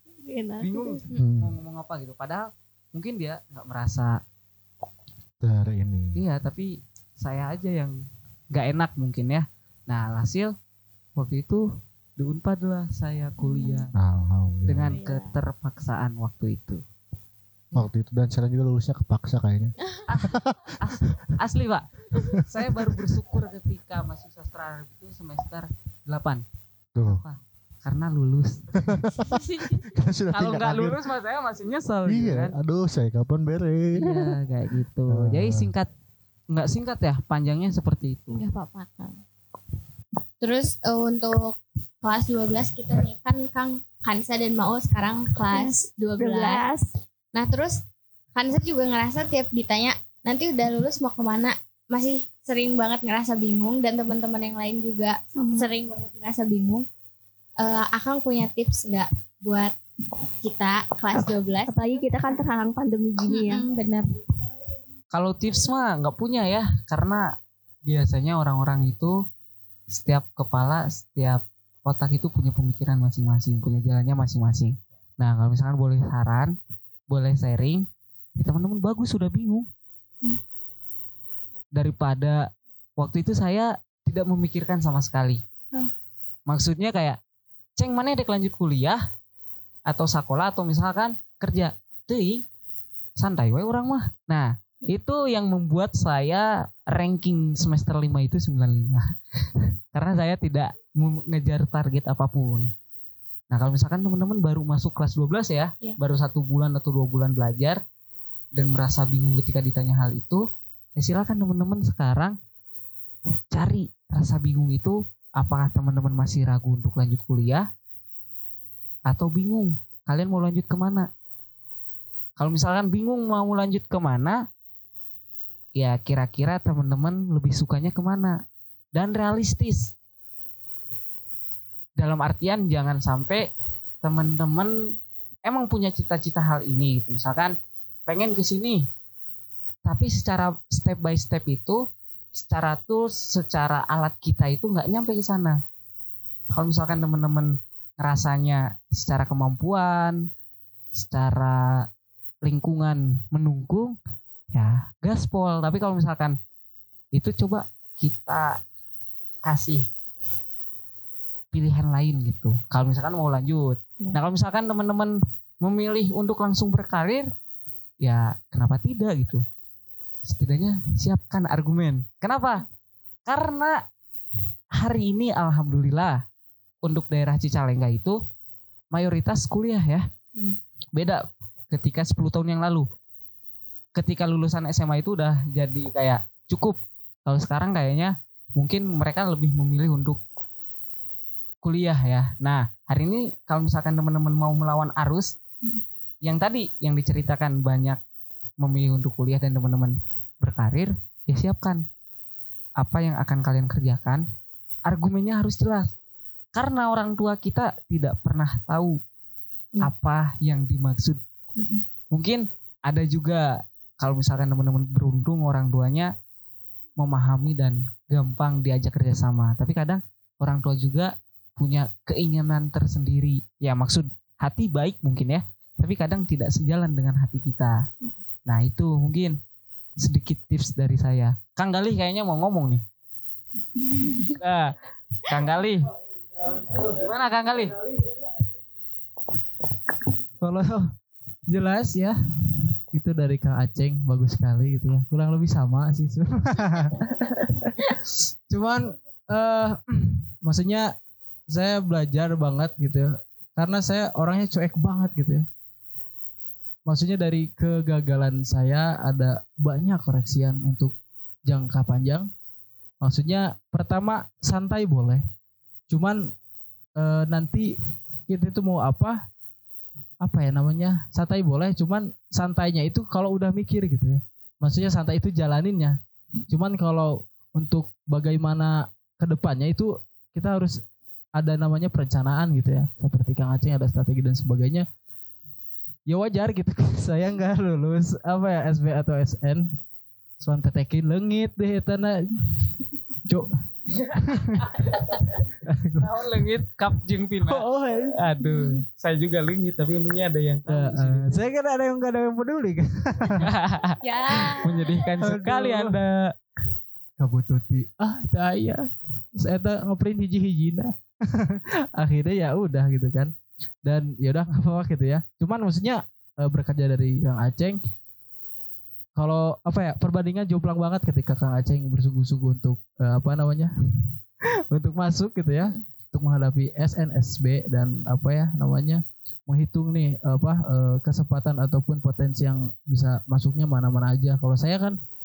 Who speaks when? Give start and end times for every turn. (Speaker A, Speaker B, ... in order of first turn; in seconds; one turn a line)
Speaker A: 0.2-1.0
Speaker B: 0.6-4.2
Speaker C: 1.2-1.5
Speaker C: 5.4-6.2
Speaker B: 6.2-8.0
Speaker B: 8.5-10.5
Speaker B: 11.2-11.6
Speaker B: 12.2-13.9
Speaker C: 13.9-15.0
Speaker B: 14.7-16.8
Speaker C: 17.7-21.3
Speaker B: 20.1-26.4
Speaker C: 26.9-27.2
Speaker B: 27.0-28.7
Speaker C: 28.8-31.0
Speaker B: 30.3-32.6
Speaker C: 32.1-34.1
Speaker B: 34.0-35.9
Speaker C: 35.1-35.7
Speaker B: 36.5-38.4
Speaker D: 38.5-39.0
Speaker D: 40.4-46.7
Speaker A: 45.5-46.9
Speaker D: 47.3-47.8
Speaker D: 48.4-56.9
Speaker A: 55.4-55.7
Speaker D: 57.6-59.7
Speaker D: 60.4-61.8
Speaker A: 61.1-63.7
Speaker D: 63.3-64.1
Speaker B: 65.1-67.3
Speaker B: 67.9-69.2
Speaker B: 69.9-76.5
Speaker B: 77.1-77.8
Speaker B: 78.4-79.7
Speaker B: 81.8-82.5
Speaker B: 83.0-85.4
Speaker B: 86.5-87.2
Speaker B: 87.8-89.0
Speaker B: 89.9-92.4
Speaker B: 93.2-102.7
Speaker B: 103.5-107.8
Speaker B: 108.5-110.4
Speaker B: 111.0-112.4
Speaker B: 113.5-117.7
Speaker B: 119.1-121.1
Speaker B: 122.4-124.4
Speaker B: 125.8-128.4
Speaker B: 128.9-129.9
Speaker B: 132.0-133.5
Speaker B: 134.0-134.7
Speaker B: 135.4-137.5
Speaker B: 138.1-138.8
Speaker B: 139.8-141.8
Speaker B: 142.3-145.6
Speaker B: 146.5-150.2
Speaker B: 151.0-151.9
Speaker B: 152.4-154.0
Speaker B: 154.5-156.4
Speaker B: 157.1-158.6
Speaker B: 159.4-159.8
Speaker B: 161.5-167.3
Speaker B: 168.0-169.4
Speaker B: 170.3-172.6
Speaker B: 173.3-173.8
Speaker B: 174.8-176.2
Speaker B: 176.8-178.2
Speaker B: 178.9-180.1
Speaker B: 180.9-182.9
Speaker B: 184.0-190.2
Speaker B: 191.6-195.3
Speaker B: 196.2-198.0
Speaker B: 198.6-201.8
Speaker B: 202.8-204.2
Speaker B: 204.9-205.9
Speaker B: 206.6-209.0
Speaker B: 209.8-211.2
Speaker B: 212.1-216.1
Speaker B: 217.0-227.8
Speaker B: 228.5-229.4
Speaker B: 230.0-232.8
Speaker B: 234.2-235.9
Speaker E: 236.6-236.9
Speaker B: 236.8-237.8
Speaker E: 240.4-240.9
Speaker E: 241.5-242.2
Speaker E: 242.9-250.9
Speaker E: 251.5-255.5
Speaker E: 256.9-260.9
Speaker E: 261.5-262.3
Speaker E: 263.0-265.2
Speaker E: 265.9-266.3
Speaker E: 267.0-267.7
Speaker E: 268.3-269.2
Speaker E: 270.2-280.8
Speaker E: 281.4-284.9
Speaker E: 286.1-289.7
Speaker E: 290.4-292.2
Speaker E: 294.1-294.8
Speaker B: 294.4-295.2
Speaker E: 295.4-296.1
Speaker B: 296.0-301.4
Speaker E: 297.5-298.2
Speaker E: 300.7-303.5
Speaker B: 303.4-306.3
Speaker D: 304.1-304.5
Speaker E: 305.2-306.0
Speaker E: 307.2-308.8
Speaker E: 309.4-313.3
Speaker E: 313.8-317.8
Speaker E: 319.2-324.0
Speaker E: 324.7-335.0